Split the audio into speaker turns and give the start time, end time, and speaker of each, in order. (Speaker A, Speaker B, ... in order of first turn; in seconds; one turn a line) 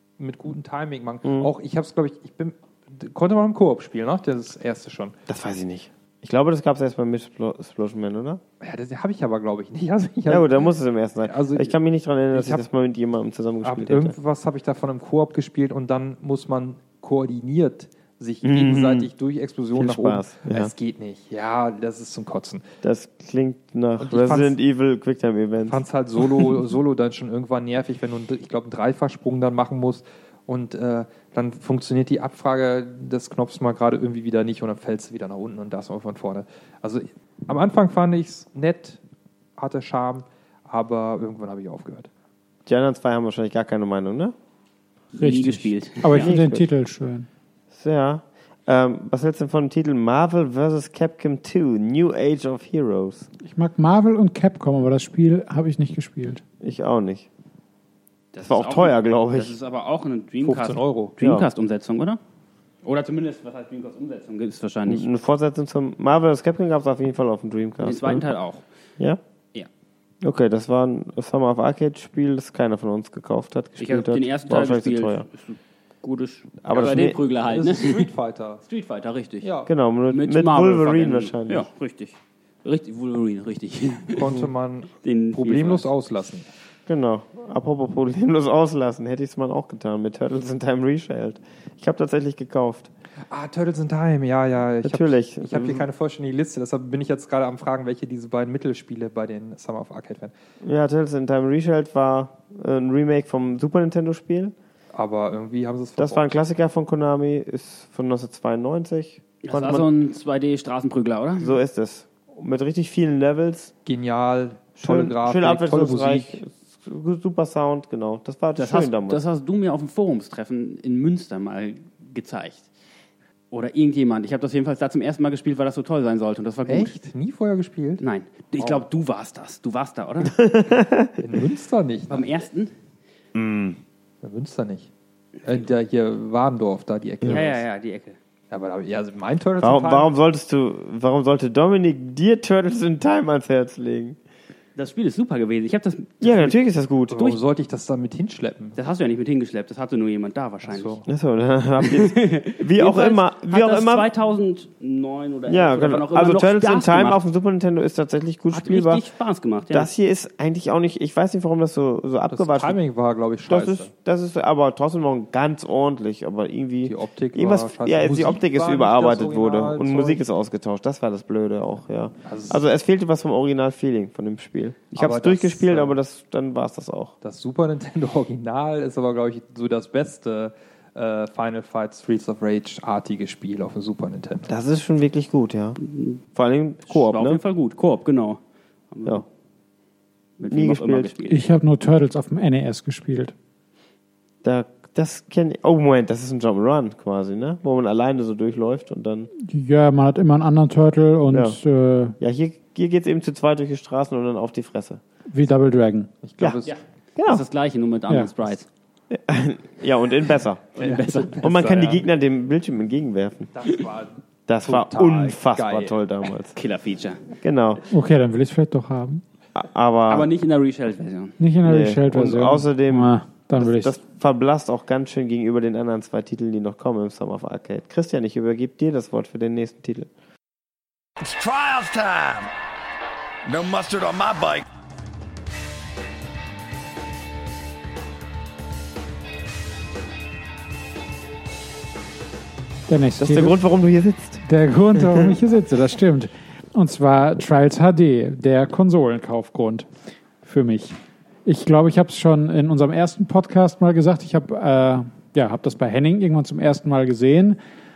Speaker A: 0.2-5.2
Speaker B: 1.2-1.5
Speaker B: 5.3-8.4
Speaker A: 8.6-10.7
Speaker B: 10.3-14.2
Speaker A: 11.2-11.8
Speaker A: 12.3-12.7
Speaker A: 13.6-22.6
Speaker B: 18.4-19.1
Speaker B: 19.8-20.7
Speaker B: 22.8-25.8
Speaker A: 24.0-24.6
Speaker A: 25.7-39.0
Speaker A: 39.6-42.1
Speaker B: 42.7-44.3
Speaker C: 45.2-46.4
Speaker D: 45.2-47.3
Speaker B: 46.1-46.7
Speaker B: 47.7-53.3
Speaker D: 53.4-56.4
Speaker B: 56.6-57.3
Speaker C: 58.3-62.2
Speaker B: 58.4-59.5
Speaker A: 60.4-61.1
Speaker B: 61.2-61.5
Speaker C: 62.8-65.1
Speaker B: 64.9-68.3
Speaker C: 67.8-68.7
Speaker B: 70.2-75.3
Speaker C: 73.8-78.1
Speaker B: 76.6-77.2
Speaker A: 77.5-78.6
Speaker C: 78.7-79.5
Speaker A: 79.4-79.7
Speaker B: 79.7-81.7
Speaker C: 80.1-84.5
Speaker A: 84.2-86.5
Speaker C: 85.0-85.9
Speaker B: 86.9-92.9
Speaker A: 93.3-100.3
Speaker B: 94.8-95.8
Speaker B: 100.6-104.5
Speaker A: 104.9-106.3
Speaker B: 106.0-109.9
Speaker C: 109.4-111.6
Speaker B: 111.4-113.7
Speaker A: 113.8-116.4
Speaker B: 114.8-119.2
Speaker C: 118.6-122.7
Speaker C: 123.5-127.0
Speaker A: 126.7-128.0
Speaker C: 128.0-130.6
Speaker B: 130.4-131.1
Speaker A: 131.2-132.3
Speaker C: 132.1-132.7
Speaker B: 133.3-133.8
Speaker A: 134.2-134.9
Speaker A: 135.4-137.6
Speaker C: 137.2-138.2
Speaker A: 138.5-140.1
Speaker B: 139.6-144.2
Speaker C: 144.8-146.6
Speaker B: 146.2-147.3
Speaker A: 147.1-148.8
Speaker C: 148.8-151.0
Speaker A: 150.7-151.1
Speaker B: 151.1-154.1
Speaker C: 151.8-157.2
Speaker B: 155.5-159.0
Speaker C: 158.5-159.9
Speaker B: 159.7-162.8
Speaker A: 162.3-163.9
Speaker B: 163.5-177.2
Speaker A: 166.8-170.2
Speaker A: 172.2-172.6
Speaker A: 175.0-175.9
Speaker A: 177.2-184.5
Speaker B: 184.5-185.8
Speaker C: 185.8-186.2
Speaker B: 186.3-187.4
Speaker C: 186.9-188.4
Speaker C: 188.9-189.2
Speaker C: 190.4-191.5
Speaker B: 190.5-191.1
Speaker D: 191.3-193.3
Speaker B: 194.4-199.3
Speaker D: 199.4-202.2
Speaker B: 201.3-201.6
Speaker B: 202.2-205.0
Speaker D: 205.3-206.1
Speaker A: 206.2-206.8
Speaker C: 206.7-208.7
Speaker B: 207.2-207.4
Speaker B: 209.1-210.8
Speaker C: 210.8-211.5
Speaker A: 210.8-212.1
Speaker B: 211.4-213.5
Speaker A: 213.5-216.0
Speaker B: 214.5-216.6
Speaker C: 216.5-217.2
Speaker B: 217.4-217.8
Speaker D: 217.9-219.2
Speaker B: 219.6-220.3
Speaker C: 220.1-221.4
Speaker D: 221.4-223.9
Speaker B: 221.6-230.1
Speaker E: 231.2-232.5
Speaker E: 233.5-234.7
Speaker D: 242.9-243.6
Speaker B: 243.2-244.4
Speaker D: 244.4-249.9
Speaker B: 244.9-245.3
Speaker D: 250.4-257.6